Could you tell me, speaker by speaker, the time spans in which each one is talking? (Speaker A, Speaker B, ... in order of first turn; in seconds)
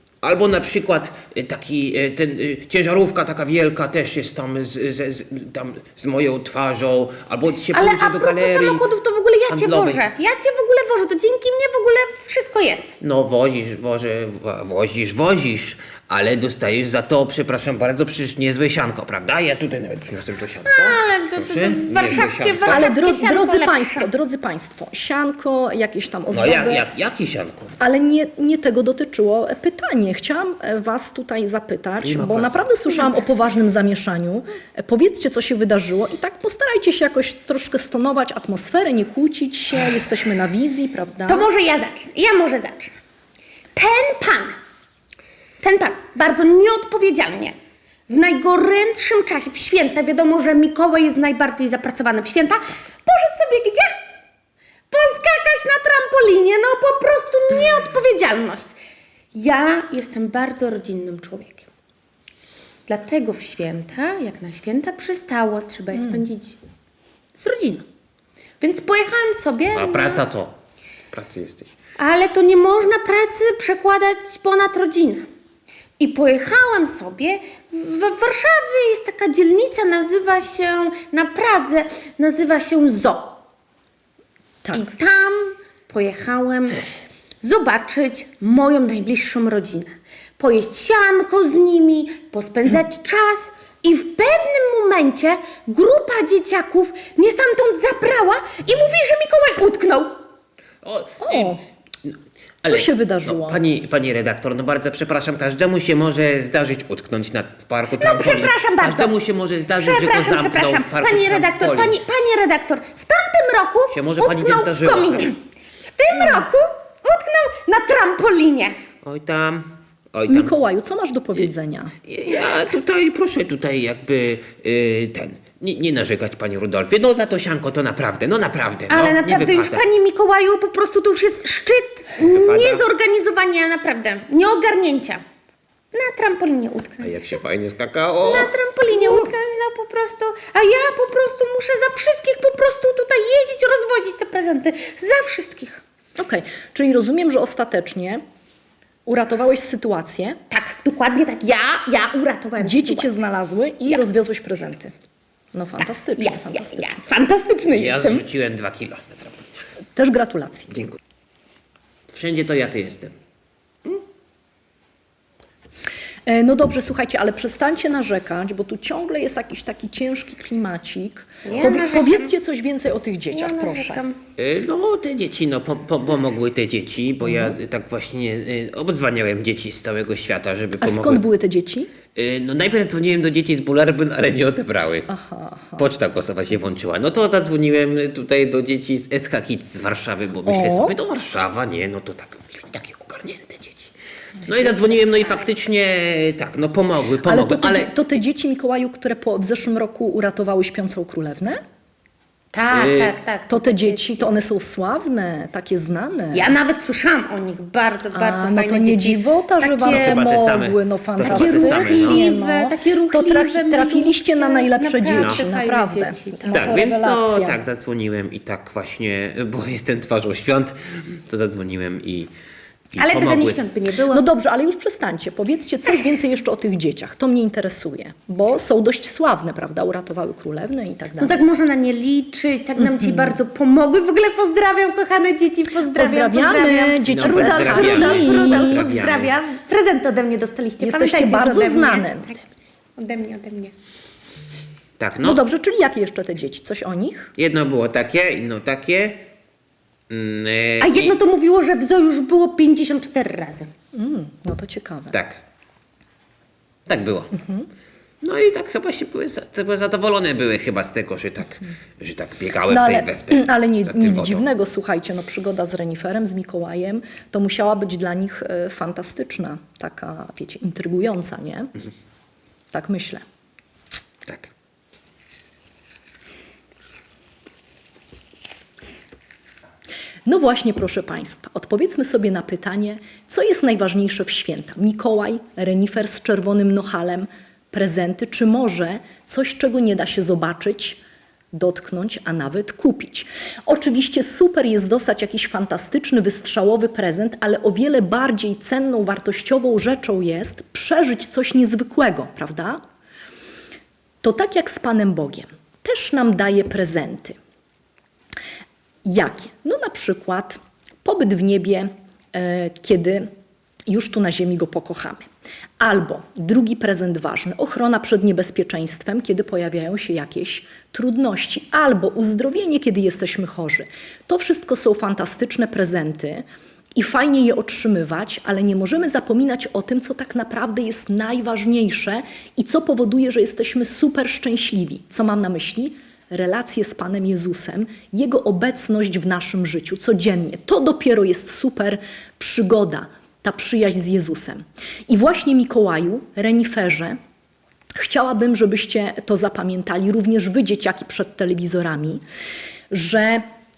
Speaker A: 0.2-8.8, 9.5-10.0, 13.0-22.9, 26.3-27.8, 32.0-32.7, 69.7-70.5, 71.1-71.7, 100.8-112.0, 113.9-115.3, 119.0-120.5, 122.0-129.8, 132.2-132.8, 137.0-138.5, 157.7-159.6, 162.1-163.1, 174.4-181.2, 182.1-185.1, 185.8-193.9, 194.4-197.9, 202.7-203.1, 209.8-212.2, 215.1-215.4, 216.5-222.3, 222.9-223.6, 237.0-239.3, 245.0-245.4, 247.4-249.2, 250.1-251.2, 255.1-255.4, 256.9-257.3, 258.2-264.4
Speaker B: 7.7-12.9, 20.7-24.1, 41.3-43.0, 43.7-44.5, 45.6-47.5, 48.1-53.9, 54.9-58.7, 59.3-61.6, 62.9-66.6, 67.3-67.8, 68.6-70.2, 72.0-75.2, 76.0-83.4, 84.7-86.8, 87.4-100.2, 108.0-109.1, 109.7-118.8, 128.9-135.2, 135.9-137.2, 138.2-145.8, 150.5-153.2, 155.8-158.2, 171.4-172.3, 173.3-174.2, 202.5-204.3, 206.3-210.3, 211.2-216.8, 223.0-224.2, 231.2-242.4, 243.0-243.7, 250.8-253.7
Speaker C: 22.7-26.8, 27.8-41.5, 84.6-84.9, 101.2-101.6, 102.6-103.6, 120.3-121.9, 146.2-148.2, 149.1-150.4, 152.6-154.9, 155.5-156.9, 159.9-160.8, 166.3-174.0, 177.2-177.6, 180.8-181.9, 185.1-185.9, 190.4-190.9, 197.2-201.6, 203.5-206.5, 208.1-217.6, 224.1-231.4, 235.9-239.2, 240.8-242.3, 245.2-247.3, 253.9-255.2, 257.4-257.7, 262.7-271.7, 272.7-273.2, 280.2-291.0, 291.5-302.8, 304.2-307.4, 309.0-313.3, 313.9-315.2, 315.8-347.2, 348.0-352.2, 352.9-353.4